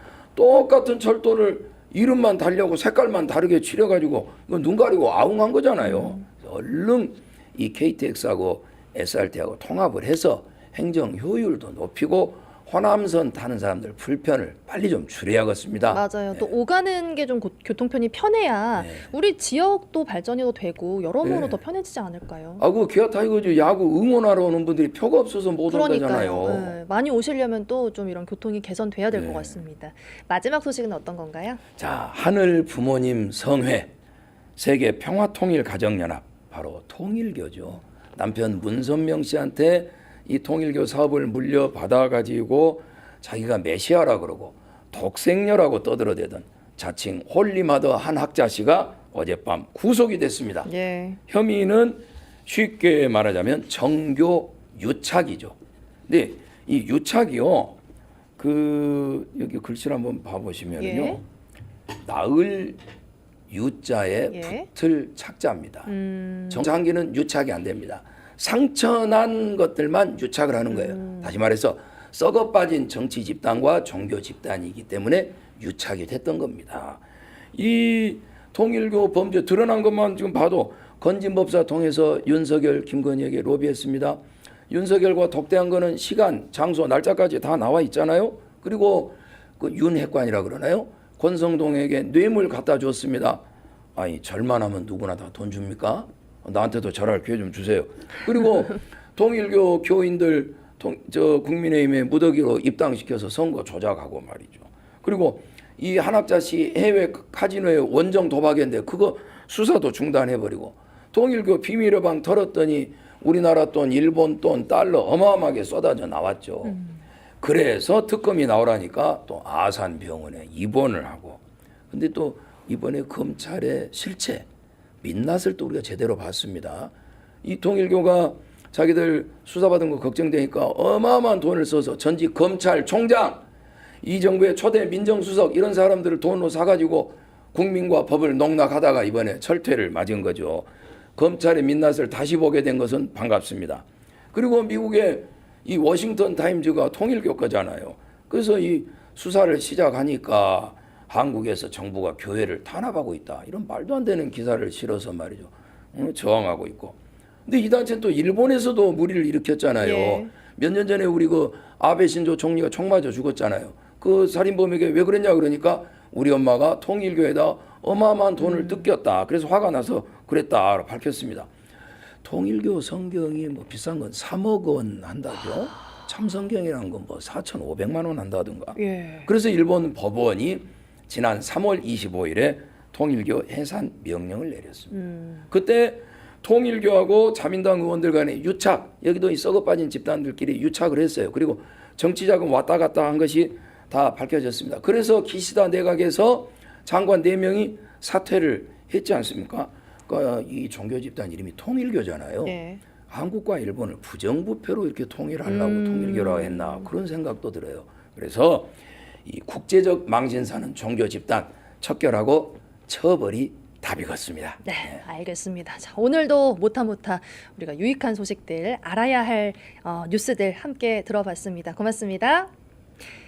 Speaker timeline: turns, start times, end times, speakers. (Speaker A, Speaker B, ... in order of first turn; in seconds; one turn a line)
Speaker A: 0.3-16.5
Speaker B: 5.8-6.2
Speaker B: 15.9-22.6
Speaker A: 18.8-19.0
Speaker A: 21.2-21.6
Speaker A: 22.6-26.8
Speaker B: 25.7-31.6
Speaker A: 29.1-29.5
Speaker A: 31.8-33.9
Speaker A: 34.5-50.7
Speaker B: 50.6-51.2
Speaker A: 51.3-55.5
Speaker A: 56.1-57.8
Speaker A: 58.4-61.2
Speaker B: 60.8-61.2
Speaker A: 62.0-62.8
Speaker A: 63.5-65.9
Speaker B: 64.3-64.7
Speaker B: 65.9-66.7
Speaker A: 66.5-77.0
Speaker B: 70.7-71.3
Speaker A: 77.5-93.4
Speaker A: 94.0-116.8
Speaker A: 117.4-124.5
Speaker A: 125.0-126.9
Speaker A: 127.4-133.4
Speaker A: 134.0-171.5
Speaker B: 159.8-160.3
Speaker B: 168.4-168.8
Speaker A: 172.2-184.9
Speaker B: 178.8-179.3
Speaker B: 184.9-185.4
Speaker A: 185.5-202.5
Speaker B: 202.4-202.8
Speaker A: 203.1-208.7
Speaker B: 205.4-206.9
Speaker A: 209.2-215.0
Speaker B: 214.6-222.5